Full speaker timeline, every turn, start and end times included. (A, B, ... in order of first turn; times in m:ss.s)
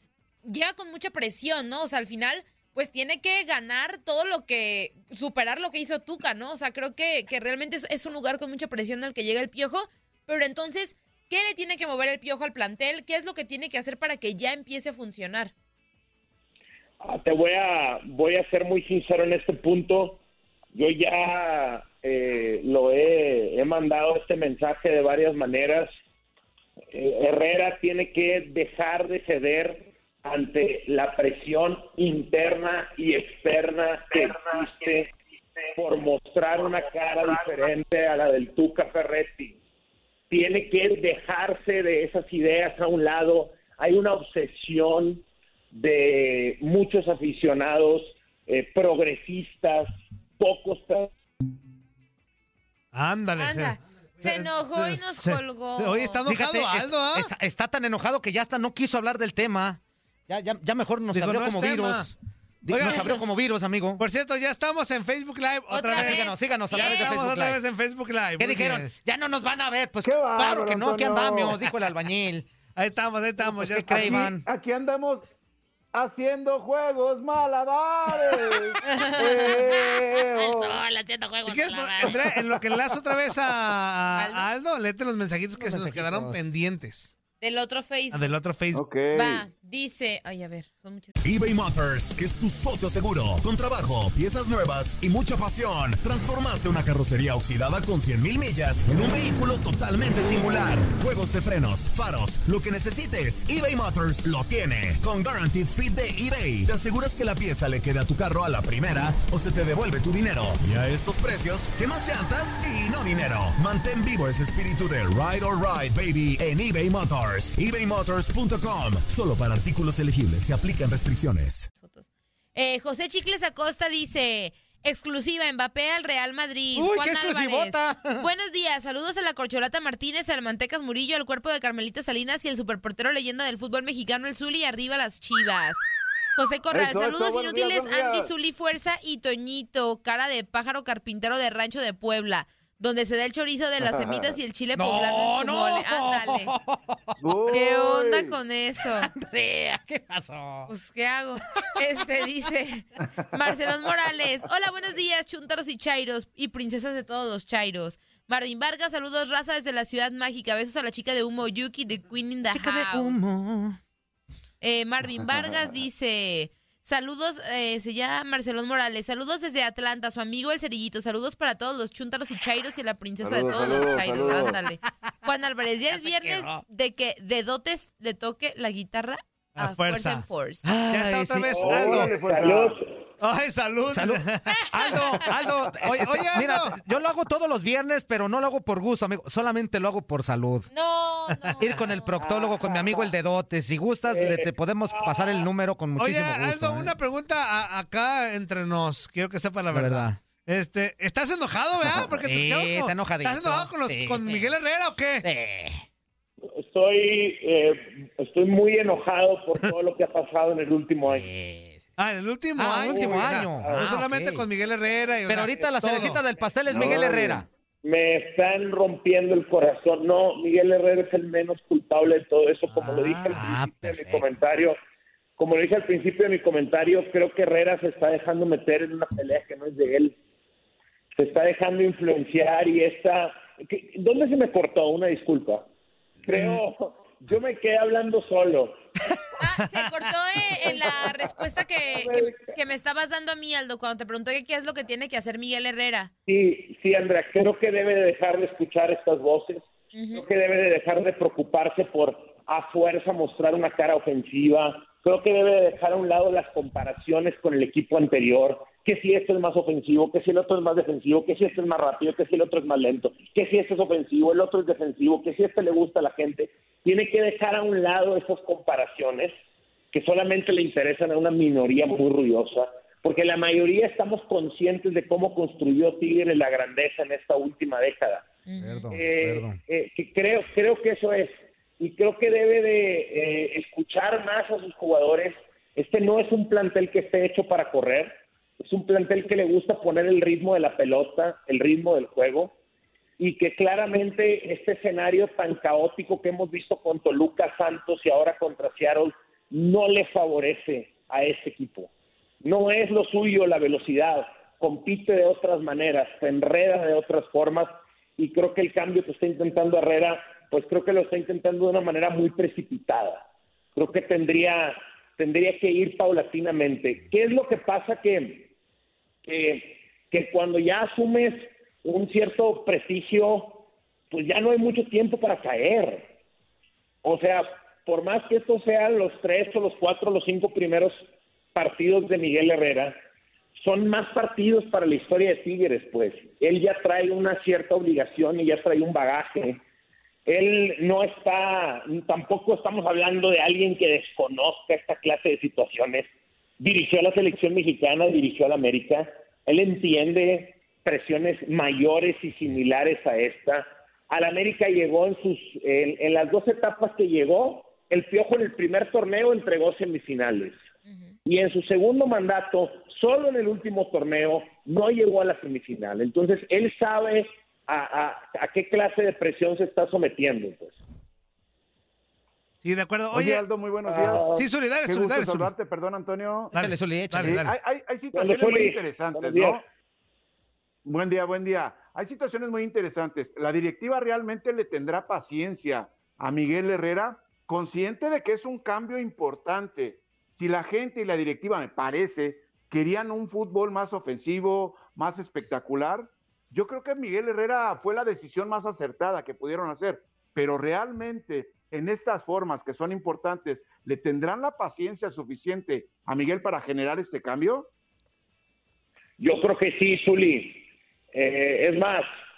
0:00.4-0:15.5 A
0:17.0-0:20.2 B
0:20.7-0:25.9 B
0:26.9-0:35.1 B
0:35.7-0:39.6 B
0:40.3-0:51.1 B
0:52.9-0:57.3 C
0:53.4-0:56.3 A
0:56.2-1:04.0 D
1:01.1-1:02.1 C
1:02.7-1:03.1 C
1:04.0-1:08.9 C
1:05.7-1:07.2 A
1:06.1-1:07.6 D
1:08.4-1:12.5 D
1:10.0-1:11.6 E
1:12.7-1:13.9 C
1:13.4-1:14.4 D
1:13.9-1:15.3 E
1:15.9-1:20.8 E
1:18.8-1:20.1 A
1:21.1-1:22.2 A
1:21.4-1:27.1 C
1:24.2-1:24.5 A
1:25.7-1:26.4 D
1:27.4-1:28.3 A
1:28.1-1:28.8 C
1:28.7-1:29.5 E
1:29.1-1:31.1 A
1:31.2-2:01.7 F
2:01.8-2:15.8 A
2:06.7-2:08.3 D
2:16.4-2:26.5 A
2:16.7-2:18.3 E
2:23.8-2:24.4 E
2:24.7-2:27.1 D
2:27.2-2:28.4 E
2:27.5-2:29.1 A
2:28.9-2:30.7 D
2:30.7-2:43.2 A
2:31.5-2:32.5 D
2:42.5-2:43.8 D
2:44.6-3:00.7 A
2:53.2-2:54.6 E
2:55.9-2:56.6 D
2:59.6-3:02.1 C
3:00.6-3:01.8 D
3:01.5-3:02.8 B
3:01.5-3:02.8 E
3:03.2-3:04.6 C
3:03.8-3:10.7 D
3:04.8-3:05.4 A
3:05.8-3:06.8 C
3:10.7-3:12.1 A
3:11.6-3:17.0 D
3:12.1-3:13.1 B
3:14.0-3:15.4 B
3:16.0-3:25.2 C
3:19.7-3:20.2 D
3:21.8-3:24.6 D
3:25.2-3:25.8 D
3:26.6-3:31.3 B
3:31.1-3:31.7 D
3:32.0-3:36.2 C
3:32.6-3:34.5 D
3:32.7-3:33.9 B
3:34.6-3:44.8 B
3:35.2-3:37.4 D
3:36.7-3:37.4 E
3:42.7-3:44.2 D
3:45.4-3:50.1 B
3:51.1-3:55.6 B
3:56.2-3:58.7 B
3:59.4-4:06.1 A
4:00.5-4:01.1 B
4:01.9-4:02.4 B
4:06.3-4:29.3 B
4:09.9-4:10.2 A
4:29.9-4:52.5 B
4:38.4-4:38.9 A
4:38.6-4:39.6 D
4:53.2-5:01.9 B
5:02.4-5:13.2 B
5:13.7-5:18.5 B
5:19.2-5:26.1 B
5:27.0-5:30.9 B
5:31.5-5:33.0 B
5:33.6-5:39.6 B
5:40.2-6:00.6 B
6:01.2-6:10.8 B
6:12.6-6:13.4 C
6:13.1-6:14.3 E
6:13.8-6:14.4 B
6:14.3-6:15.5 C
6:14.8-6:19.6 E
6:16.5-6:17.5 C
6:16.6-6:17.3 D
6:18.1-6:19.6 B
6:20.8-6:47.7 E
6:49.2-6:52.0 B